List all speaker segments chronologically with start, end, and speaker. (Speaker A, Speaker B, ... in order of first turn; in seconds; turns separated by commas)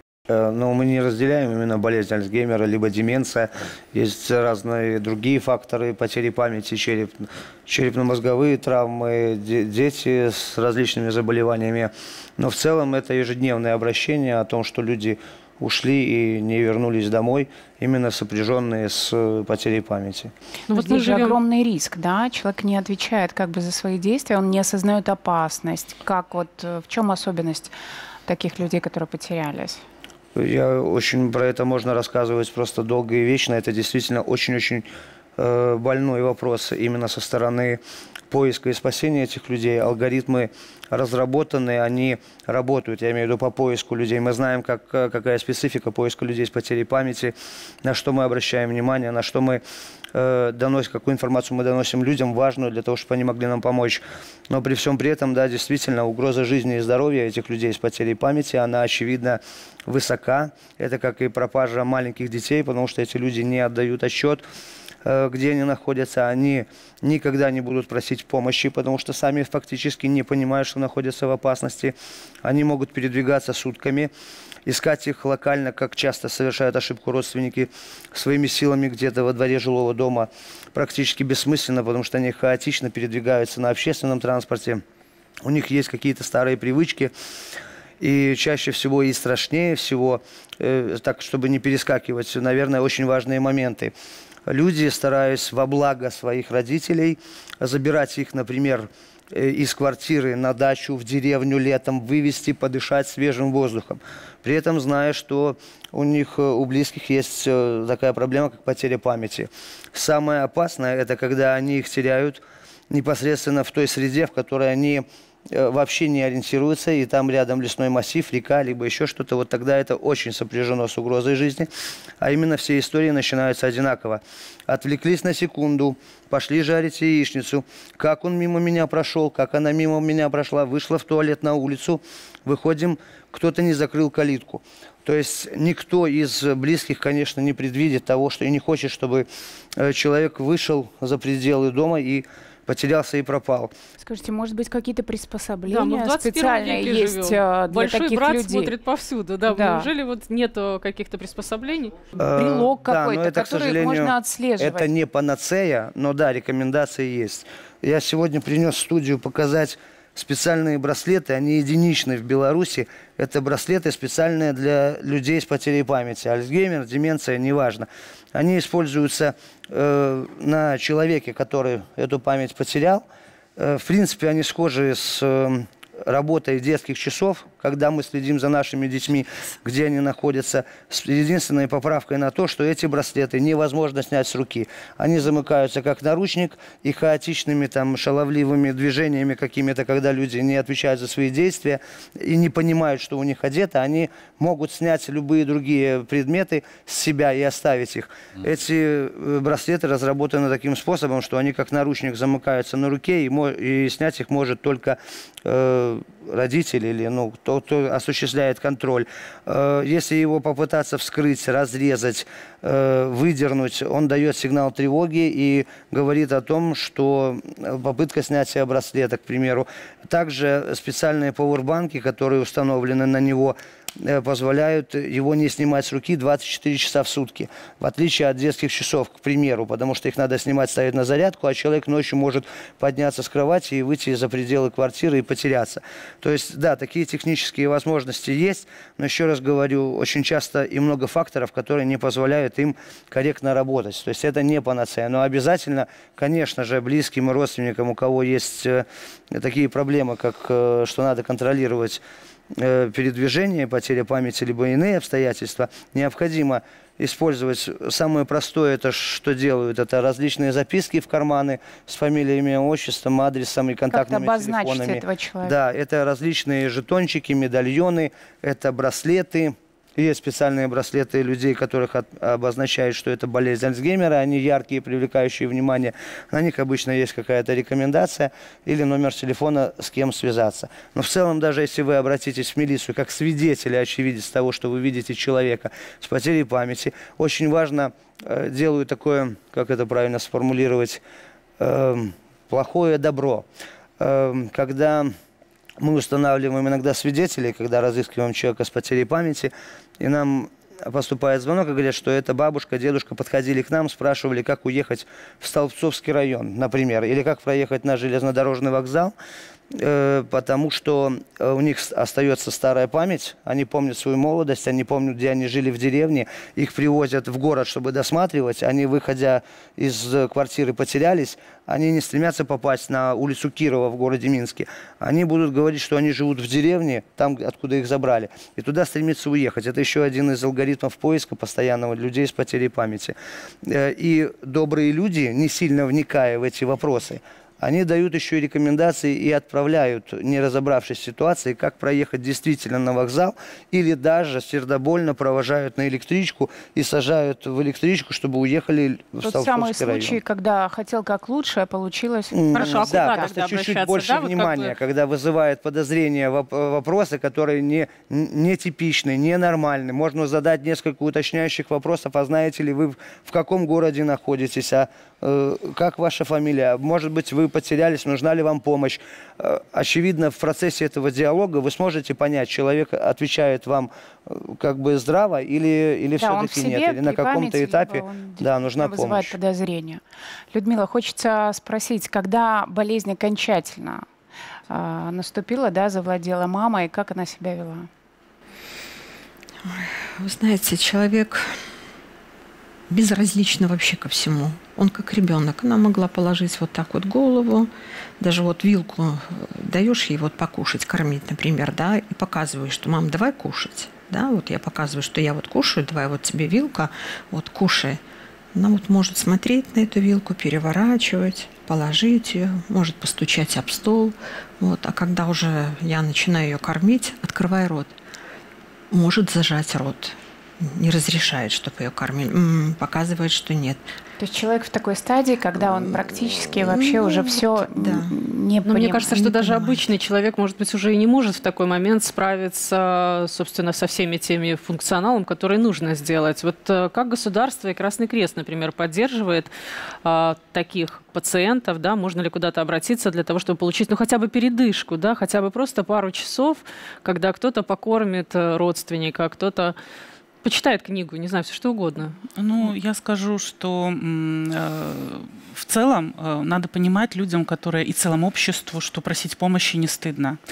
Speaker A: 0.3-20.3, Speaker B: 20.7-21.4, Speaker C: 20.7-27.7, Speaker C: 28.3-29.8, Speaker A: 30.3-49.6, Speaker A: 50.1-64.4, Speaker A: 65.0-74.1, Speaker A: 74.7-84.8, Speaker A: 85.4-87.1, Speaker A: 88.0-93.9, Speaker A: 94.5-121.7, Speaker A: 122.2-143.7, Speaker C: 144.0-148.7, Speaker B: 145.7-152.0, Speaker C: 149.5-149.9, Speaker A: 152.2-173.0, Speaker C: 152.3-154.9, Speaker A: 173.6-252.0, Speaker A: 252.6-291.0, Speaker C: 263.9-265.5, Speaker A: 291.6-293.4, Speaker A: 294.0-295.1, Speaker A: 295.8-309.1, Speaker A: 309.7-350.2, Speaker C: 349.2-353.3, Speaker A: 352.4-379.3, Speaker B: 352.5-354.7, Speaker C: 376.2-384.0, Speaker C: 384.7-387.9, Speaker D: 389.6-391.6, Speaker D: 392.9-408.0, Speaker D: 408.5-417.9, Speaker D: 418.9-423.8, Speaker C: 424.2-429.1, Speaker D: 426.5-428.1, Speaker B: 428.6-439.5, Speaker D: 429.1-429.9, Speaker B: 440.0-449.8, Speaker B: 450.4-452.1, Speaker E: 452.3-460.4